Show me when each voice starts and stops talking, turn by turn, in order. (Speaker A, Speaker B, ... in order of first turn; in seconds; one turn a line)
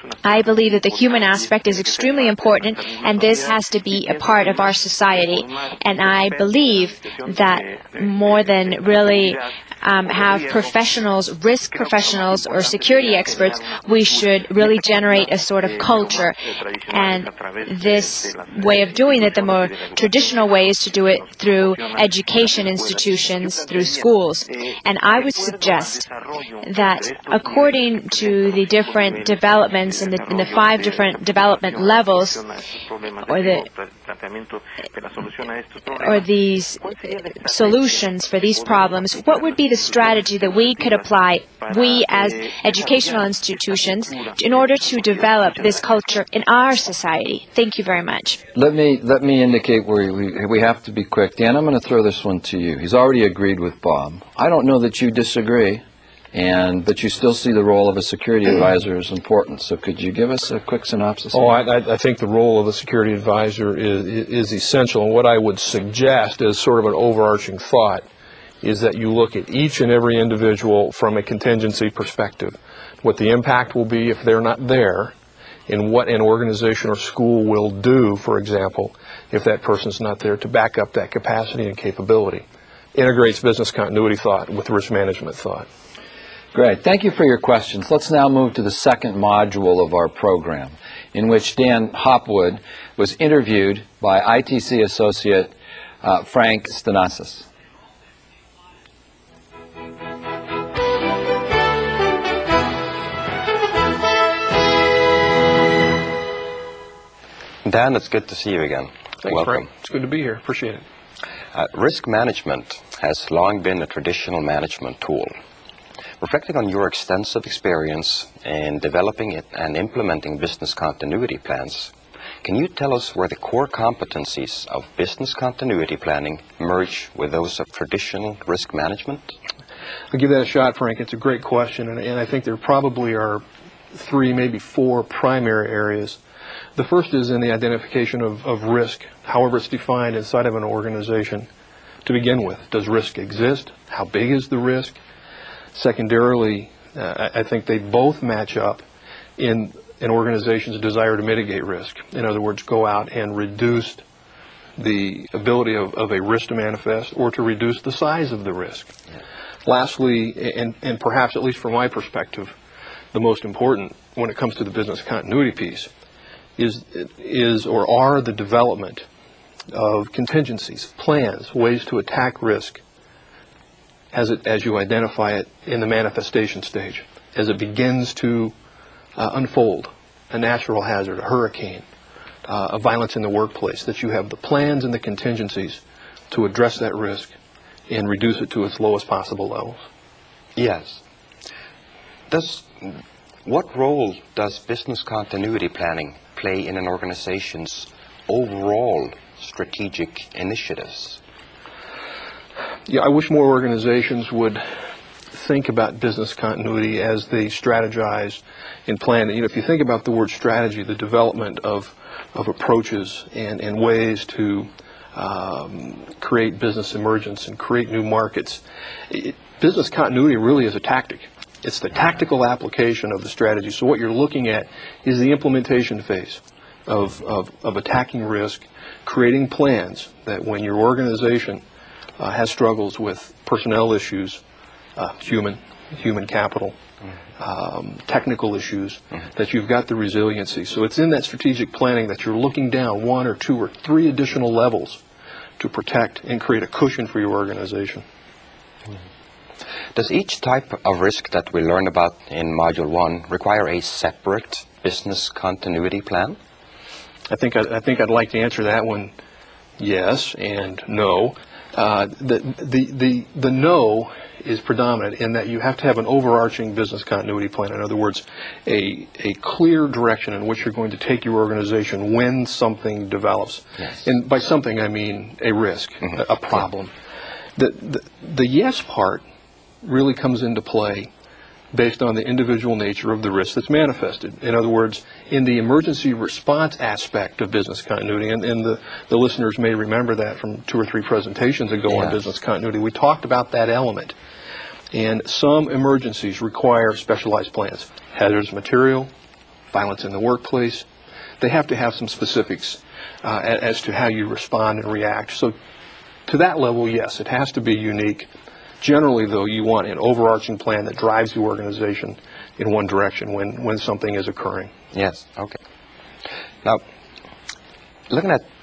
Speaker A: 0.2-16.4
Speaker A: 16.9-26.1
Speaker A: 26.6-32.4
Speaker A: 33.2-33.7
Speaker A: 35.9-48.4
Speaker B: 48.5-61.5
Speaker C: 61.3-68.0
Speaker C: 68.6-75.1
Speaker C: 75.7-85.7
Speaker B: 86.5-97.5
Speaker D: 107.6-109.6
Speaker C: 109.2-110.8
Speaker D: 111.5-115.3
Speaker D: 116.2-129.3
Speaker C: 130.1-136.2
Speaker C: 136.8-141.5
Speaker C: 142.0-145.0
Speaker C: 145.7-148.8
Speaker C: 149.4-154.0
Speaker C: 154.8-158.9
Speaker C: 159.6-162.6
Speaker C: 163.1-165.9
Speaker C: 166.6-169.1
Speaker C: 169.7-172.8
Speaker C: 174.1-178.5
Speaker C: 179.2-181.8
Speaker C: 182.4-187.3
Speaker C: 187.9-189.8
Speaker D: 190.6-191.0
Speaker D: 192.3-201.2
Speaker C: 202.8-231.6
Speaker C: 232.2-234.4
Speaker C: 234.9-236.8
Speaker C: 237.4-245.0
Speaker C: 245.6-248.0
Speaker D: 249.9-256.4
Speaker C: 257.3-259.1
Speaker C: 259.8-276.9
Speaker C: 277.6-279.2
Speaker C: 279.8-281.1
Speaker C: 281.7-294.1
Speaker D: 291.9-292.2
Speaker C: 294.9-299.1
Speaker C: 299.7-300.9
Speaker C: 301.4-305.6
Speaker C: 306.2-308.3
Speaker C: 308.8-314.7
Speaker D: 314.9-315.6
Speaker D: 318.1-318.4